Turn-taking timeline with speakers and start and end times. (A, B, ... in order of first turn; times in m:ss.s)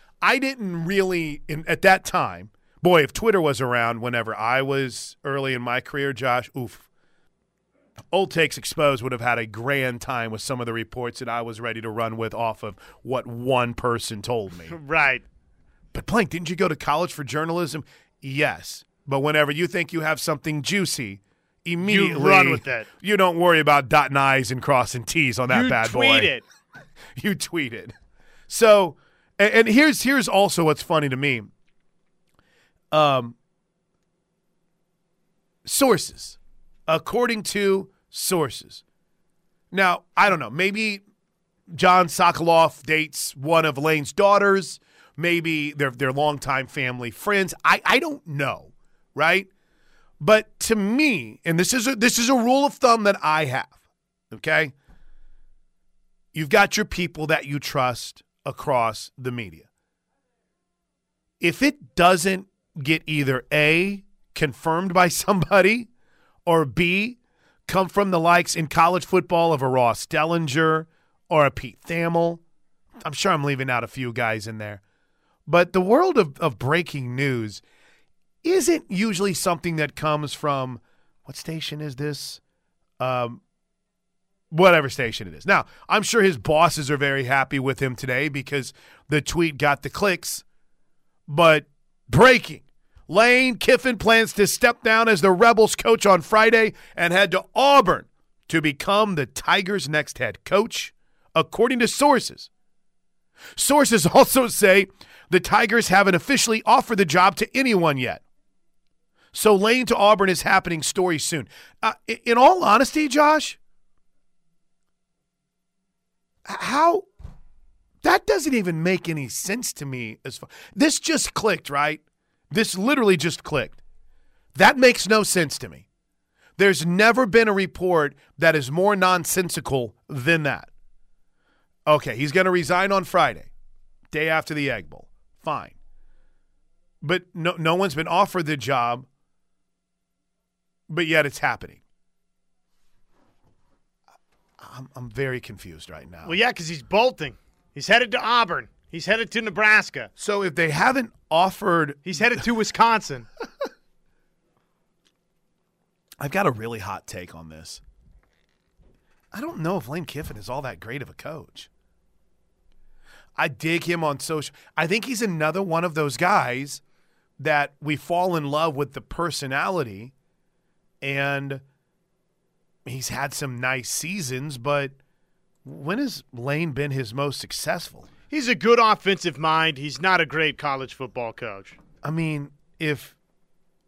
0:00.2-0:06.9 A
0:08.1-0:14.8 A
0:14.7-0:15.2 B
0:15.9-0:26.3 A
0:21.8-0:22.9 B
0:25.5-0:26.4 B
0:27.2-0:28.0 A
0:28.5-0:31.5 A
0:32.9-0:33.4 A
0:35.6-0:36.4 A
0:36.9-0:38.8 A
0:39.7-0:41.0 A
0:41.7-0:49.5 A
0:50.2-0:53.8 A
0:54.3-0:54.7 A
0:56.3-0:59.7 A
1:01.4-1:05.9 A
1:06.5-1:12.4 A
1:13.0-1:14.8 A
1:15.5-1:17.6 A
1:18.4-1:22.4 A
1:23.0-1:23.4 A
1:24.5-1:30.4 A
1:31.3-1:42.5 A
1:43.6-1:48.2 A
1:49.3-1:53.6 A
1:56.5-1:57.1 A
1:58.0-2:03.8 A
2:04.6-2:05.9 A
2:06.6-2:10.7 A
2:11.9-2:13.5 A
2:14.1-2:15.8 A
2:17.0-2:19.1 A
2:20.9-2:21.8 A
2:24.6-2:26.4 A
2:26.2-2:30.1 B
2:30.2-2:32.4 A
2:32.1-2:33.3 B
2:36.2-2:37.8 A
2:39.3-2:41.7 A
2:43.4-2:46.8 A
2:47.4-2:50.1 A
2:51.0-2:51.6 A
2:52.9-2:54.9 A
2:55.6-2:58.1 A
2:58.3-3:01.8 B
3:02.0-3:03.2 A